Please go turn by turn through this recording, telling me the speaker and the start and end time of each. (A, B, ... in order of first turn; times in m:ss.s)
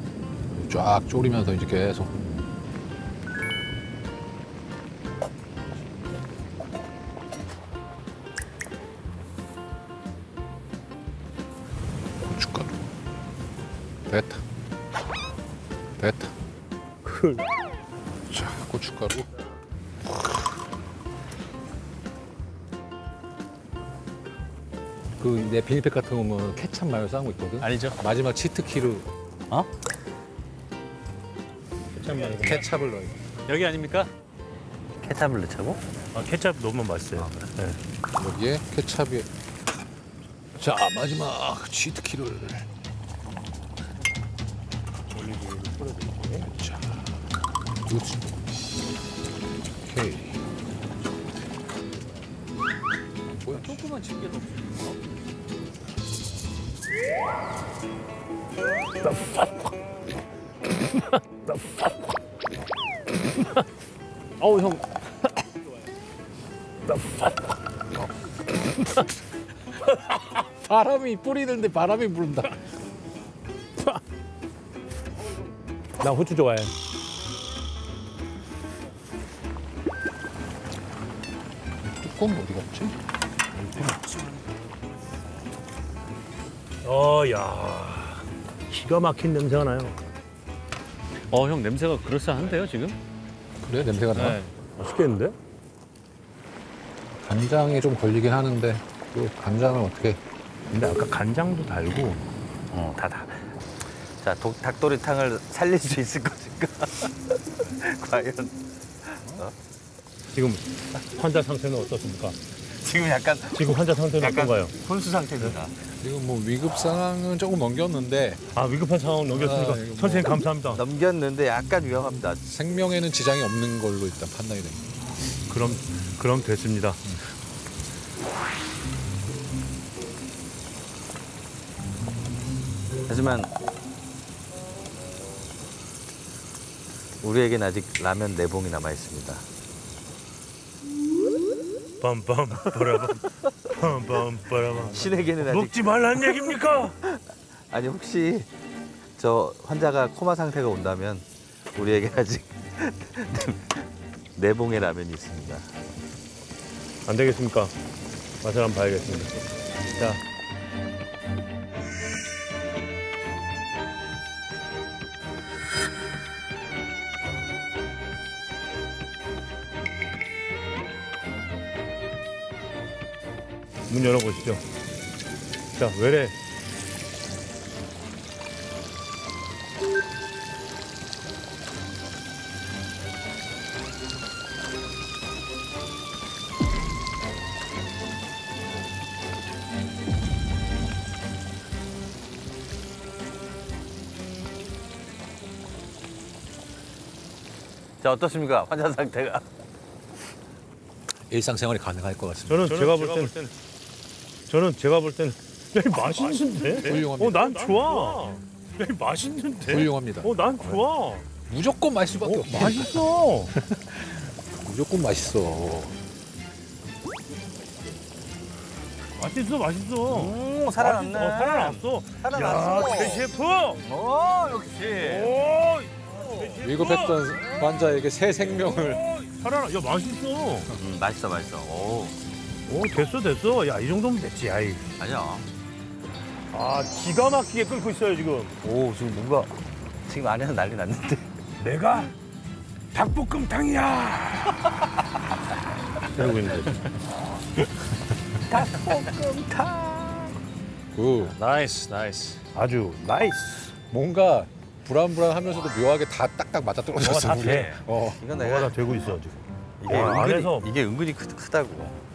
0:00.5-0:02.3 A
0:12.2-0:12.7 A
0:14.1-0:14.4 A
0:16.0-0:16.3 A
0:17.0-0:17.4 B
0:18.3-0:19.3 A
0:25.2-0:29.1 A
0:27.6-0:28.0 C
0:32.0-0:32.6 B
0:32.3-0:33.1 A
0:33.5-0:34.1 C
0:35.0-0:35.8 D
0:36.1-0:37.8 B
0:37.1-0:37.5 D
0:38.1-0:39.3 A
0:40.6-0:42.7 A
0:45.1-0:46.5 B
0:46.4-0:47.2 A
0:47.9-0:48.3 A
0:49.8-0:50.4 A
0:53.3-0:53.8 A
0:53.5-0:54.9 C
0:59.0-0:59.5 B
1:01.0-1:01.6 B
1:04.4-1:04.8 C
1:06.9-1:07.3 B
1:10.4-1:12.6 A
1:16.0-1:16.7 B
1:22.0-1:23.0 A
1:23.7-1:24.0 B
1:26.8-1:30.0 B
1:31.3-1:33.0 C
1:33.6-1:34.4 A
1:34.1-1:34.5 C
1:34.8-1:35.4 B
1:37.2-1:40.2 A
1:40.7-1:42.2 B
1:42.7-1:43.6 D
1:44.2-1:49.5 D
1:50.3-1:52.4 B
1:52.7-1:55.8 D
1:53.5-1:54.8 B
1:55.9-1:58.4 A
1:58.5-2:00.8 B
1:59.3-2:00.4 A
2:00.7-2:02.4 D
2:02.4-2:04.9 A
2:05.5-2:07.0 B
2:13.1-2:13.5 D
2:17.2-2:19.5 D
2:22.0-2:27.0 B
2:24.8-2:26.5 D
2:27.0-2:28.5 D
2:29.2-2:33.8 D
2:34.4-2:35.7 D
2:37.1-2:37.7 B
2:38.4-2:39.3 B
2:39.9-2:40.2 B
2:53.9-2:54.6 B
2:55.7-2:56.4 B
3:18.0-3:19.4 D
3:21.3-3:22.9 A
3:22.5-3:23.4 B
3:24.5-3:31.2 B
3:26.3-3:27.8 A
3:29.7-3:30.8 A
3:31.5-3:36.0 A
3:32.2-3:33.5 B
3:39.2-3:43.8 B
3:40.1-3:43.3 D
3:43.8-3:45.4 D
3:45.0-3:47.4 B
3:46.6-3:49.1 A
3:48.5-3:50.8 B
3:50.8-3:52.2 D
3:52.7-3:54.8 B
3:55.0-3:55.5 D
3:56.5-3:58.6 B
3:58.6-3:59.5 D
4:00.0-4:01.3 D
4:01.6-4:02.1 B
4:02.9-4:04.8 B
4:06.1-4:06.8 B
4:08.5-4:10.4 D
4:11.0-4:11.4 A
4:11.2-4:12.4 C
4:12.5-4:13.7 B
4:13.9-4:18.2 A
4:17.0-4:17.8 B
4:17.3-4:19.0 D
4:18.4-4:20.7 B
4:19.8-4:22.0 D